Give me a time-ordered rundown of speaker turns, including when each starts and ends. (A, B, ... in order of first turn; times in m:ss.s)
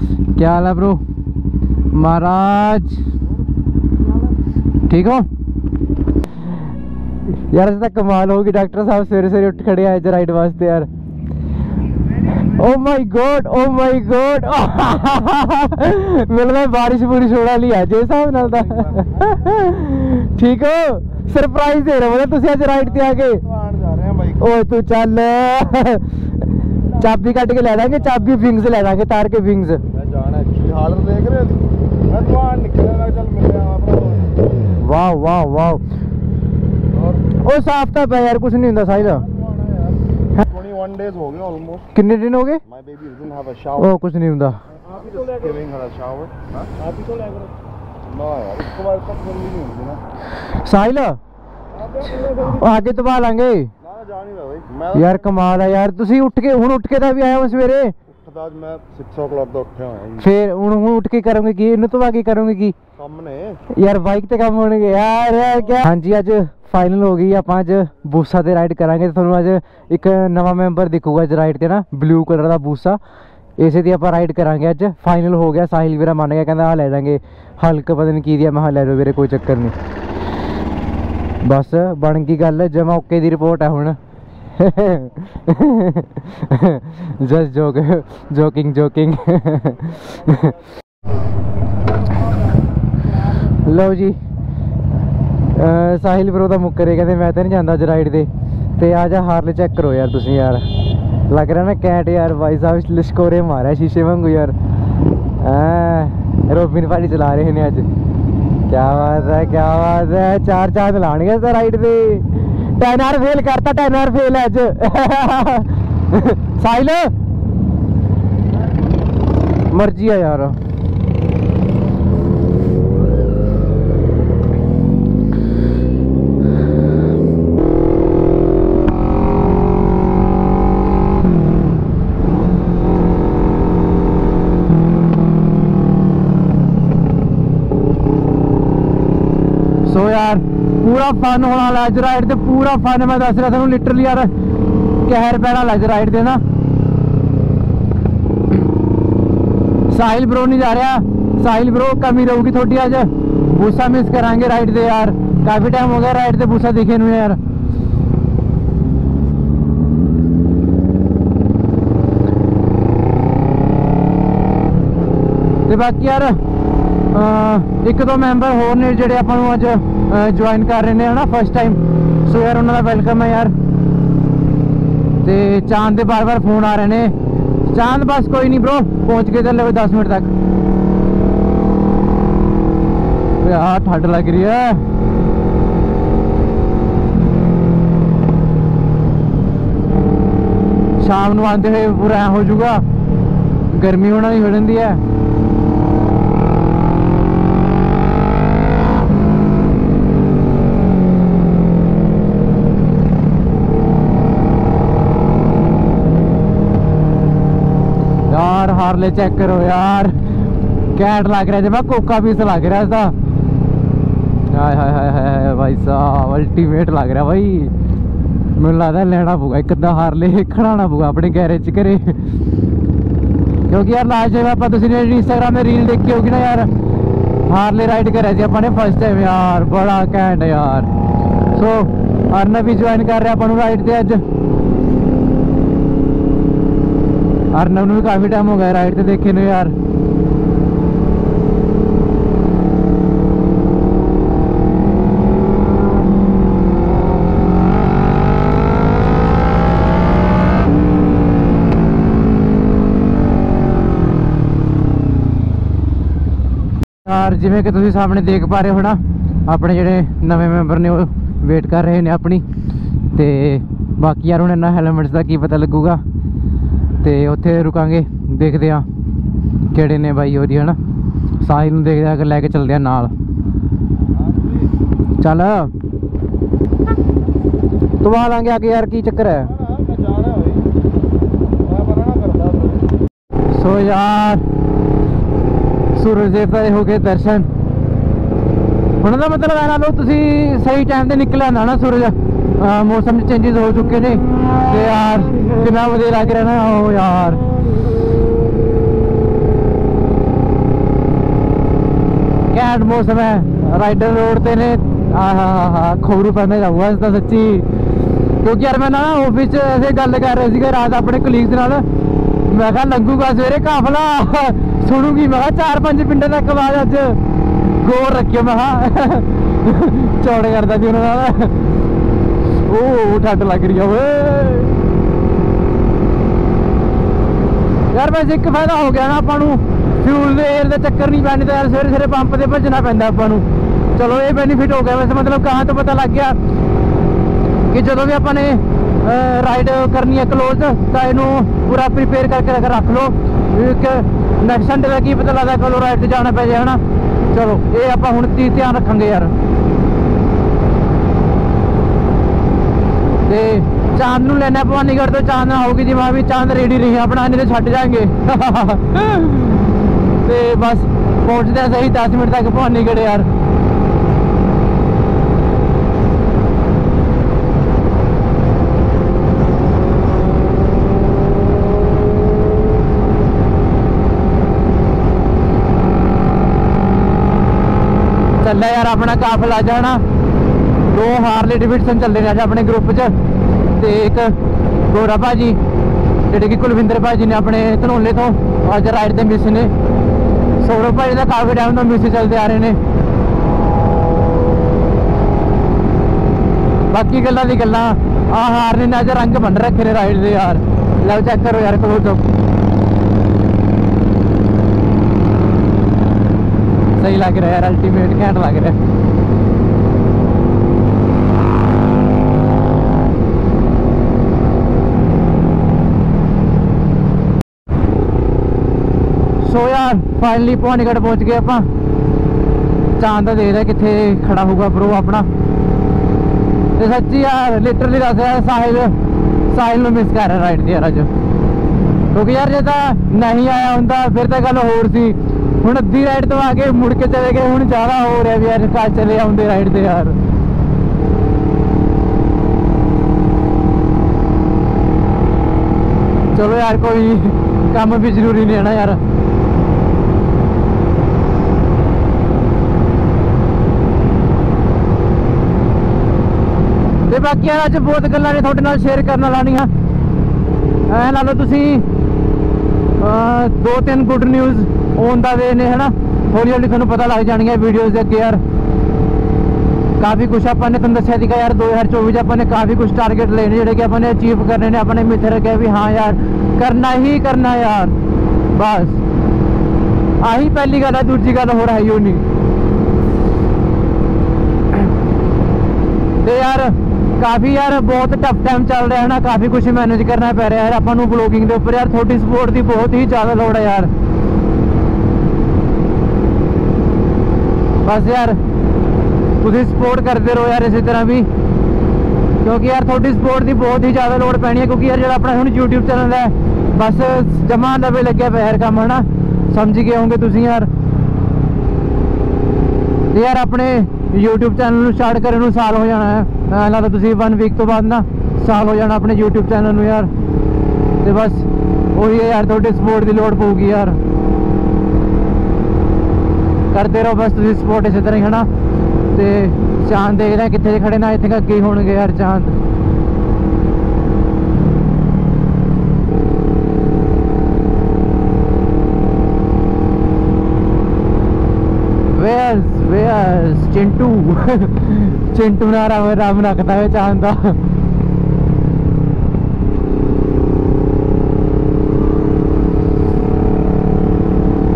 0:00.3-0:01.0 A
0:01.9-0:03.0 A
0:04.9-0:05.3 A
0:07.5-0:10.9 A
0:12.4-0:23.4 A
0:18.6-0:19.4 B
0:22.8-0:24.4 B
0:24.4-0:26.2 A
0:26.8-0:29.8 A
0:29.9-0:34.7 B
0:34.8-0:35.8 A
0:36.9-0:37.2 B
0:37.4-0:39.2 A
0:38.9-0:41.9 B
0:41.9-0:42.6 A
0:42.6-0:43.9 B
0:43.7-0:44.6 A
0:44.8-0:47.5 B
0:48.1-0:50.0 B
0:50.5-0:51.2 A
0:51.8-0:52.2 B
0:52.2-0:53.7 A
0:53.8-0:55.3 B
0:54.9-0:57.9 A
0:58.1-1:00.3 B
1:00.2-1:02.8 A
1:03.0-1:03.6 B
1:03.7-1:13.0 A
1:13.6-1:19.7 A
1:21.4-1:24.0 A
1:24.6-1:30.5 A
1:33.5-1:34.2 A
1:35.5-1:40.6 A
1:41.3-1:44.5 A
1:45.4-1:47.9 A
1:48.7-1:57.1 A
1:59.7-2:00.6 A
2:19.8-2:24.3 A
2:25.0-2:26.4 A
2:29.9-2:37.4 A
2:45.7-2:46.4 A
2:47.1-2:53.5 A
2:55.2-2:57.1 A
2:57.7-3:00.3 A
3:03.4-3:04.8 A
3:11.0-3:12.8 A
3:13.7-3:15.0 A
3:28.3-3:30.2 A
3:30.9-3:33.1 A
3:34.5-3:37.7 A
3:38.6-3:42.2 A
3:43.7-3:46.7 A
3:47.5-3:50.9 A
3:51.5-3:54.2 A
3:57.5-3:59.7 A
4:17.0-4:22.4 A
4:23.1-4:26.0 A
4:27.0-4:28.8 A
4:29.7-4:30.8 A
4:31.4-4:33.1 A
4:34.1-4:34.7 B
4:35.2-4:35.7 A
4:38.0-4:39.5 A
4:39.5-4:40.7 B
4:41.6-4:42.8 B
4:43.5-4:44.4 A
4:45.9-4:47.5 A
4:49.0-4:57.4 A
5:02.5-5:07.7 A
5:08.4-5:11.8 A
5:12.4-5:17.2 A
5:17.8-5:21.6 A
5:22.6-5:24.8 A
5:27.9-5:36.4 A
5:37.7-5:49.3 A
5:53.2-6:03.3 A
6:18.4-6:20.0 A
6:20.8-6:23.1 A
6:23.7-6:24.4 A
6:24.9-6:25.6 A
6:26.3-6:29.7 A
6:30.6-6:32.8 A
6:36.9-6:42.2 A
6:47.0-6:48.8 A
6:59.4-7:01.7 A
7:03.0-7:05.3 A
7:06.8-7:08.9 A
7:09.5-7:11.1 A
7:12.1-7:20.2 A
7:26.3-7:29.0 A
7:37.1-7:39.7 A
7:40.9-7:41.8 A
7:43.0-7:48.4 A
7:50.0-7:57.9 A
7:58.5-7:59.0 A
8:00.2-8:02.2 A
8:06.2-8:13.9 A
8:17.8-8:18.4 A
8:19.4-8:21.3 A
8:22.4-8:30.7 A
8:33.1-8:40.1 A
8:41.0-8:44.0 A
8:46.7-8:48.5 A
8:49.1-8:52.5 A
9:02.1-9:07.6 A